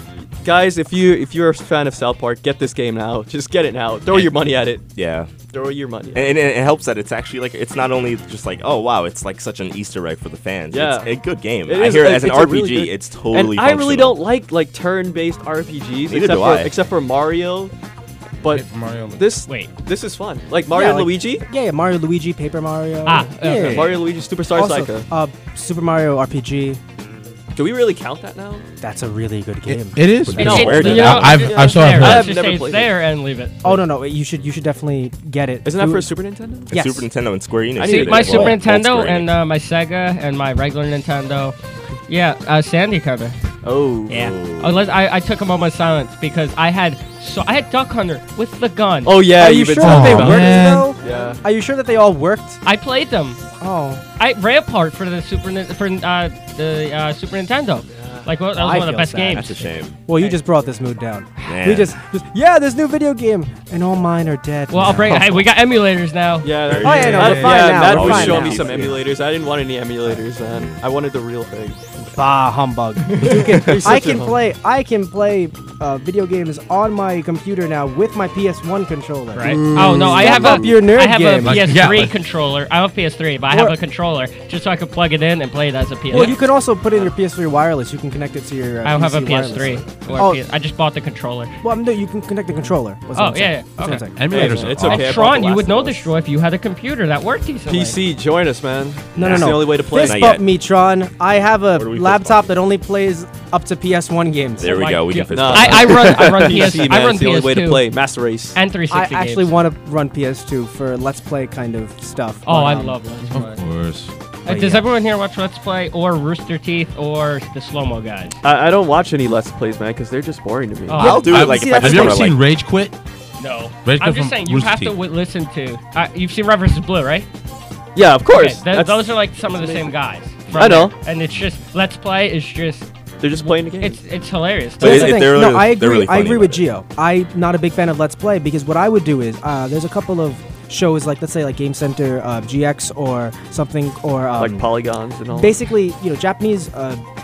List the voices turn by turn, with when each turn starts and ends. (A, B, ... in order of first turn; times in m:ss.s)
0:00.4-0:04.8 A
0:04.9-0:05.3 B
0:05.5-0:06.4 A
0:06.1-0:14.2 B
0:10.7-0:17.7 A
0:16.1-0:16.7 B
0:18.4-0:18.6 A
0:18.5-0:19.3 C
0:19.2-0:21.4 A
0:20.7-0:26.8 D
0:23.0-0:24.0 E
0:23.6-0:25.1 A
0:27.5-0:28.7 A
0:28.8-0:30.0 D
0:29.6-0:32.4 C
0:30.3-0:31.5 B
0:30.4-0:32.9 A
0:30.4-0:33.6 E
0:33.6-0:36.1 D
0:35.6-0:36.8 A
0:36.7-0:39.3 B
0:36.7-0:37.0 D
0:37.8-0:38.6 A
0:37.8-0:41.5 E
0:42.1-0:43.4 E
0:43.6-0:44.2 A
0:44.1-0:49.2 E
0:44.1-0:45.0 B
0:49.0-0:51.4 A
0:49.4-0:52.6 D
0:49.8-0:50.9 C
0:52.6-0:53.4 E
0:53.6-0:54.0 D
0:54.2-1:00.4 E
0:57.9-0:58.3 A
0:58.6-1:00.0 B
1:00.1-1:05.4 D
1:01.4-1:01.9 B
1:04.7-1:06.5 E
1:06.4-1:12.1 A
1:06.6-1:09.0 B
1:06.8-1:08.9 D
1:07.2-1:07.5 C
1:10.4-1:10.8 B
1:12.1-1:21.8 D
1:13.2-1:14.4 A
1:19.3-1:26.4 E
1:19.4-1:20.8 A
1:21.4-1:22.1 C
1:23.5-1:23.8 D
1:26.1-1:30.4 D
1:28.8-1:31.6 E
1:31.6-1:34.2 D
1:33.2-1:38.0 E
1:34.1-1:35.2 C
1:34.3-1:36.1 A
1:37.6-1:40.4 A
1:39.2-1:40.5 B
1:39.2-1:44.9 D
1:41.7-1:42.6 B
1:44.6-1:46.8 B
1:44.6-1:47.8 E
1:45.3-1:48.6 A
1:48.5-1:49.5 E
1:48.9-1:53.0 D
1:52.4-1:53.6 E
1:53.3-1:54.1 C
1:54.4-1:54.9 D
1:54.4-1:58.4 E
1:58.4-2:01.1 A
2:00.9-2:01.3 E
2:00.9-2:02.4 B
2:01.0-2:02.3 D
2:01.2-2:03.0 C
2:03.4-2:07.3 E
2:03.8-2:04.9 C
2:07.9-2:09.1 A
2:08.3-2:15.2 E
2:10.5-2:10.9 B
2:10.5-2:10.9 A
2:13.2-2:14.0 A
2:14.8-2:24.6 D
2:14.8-2:16.6 B
2:24.4-2:25.6 A
2:25.3-2:27.0 D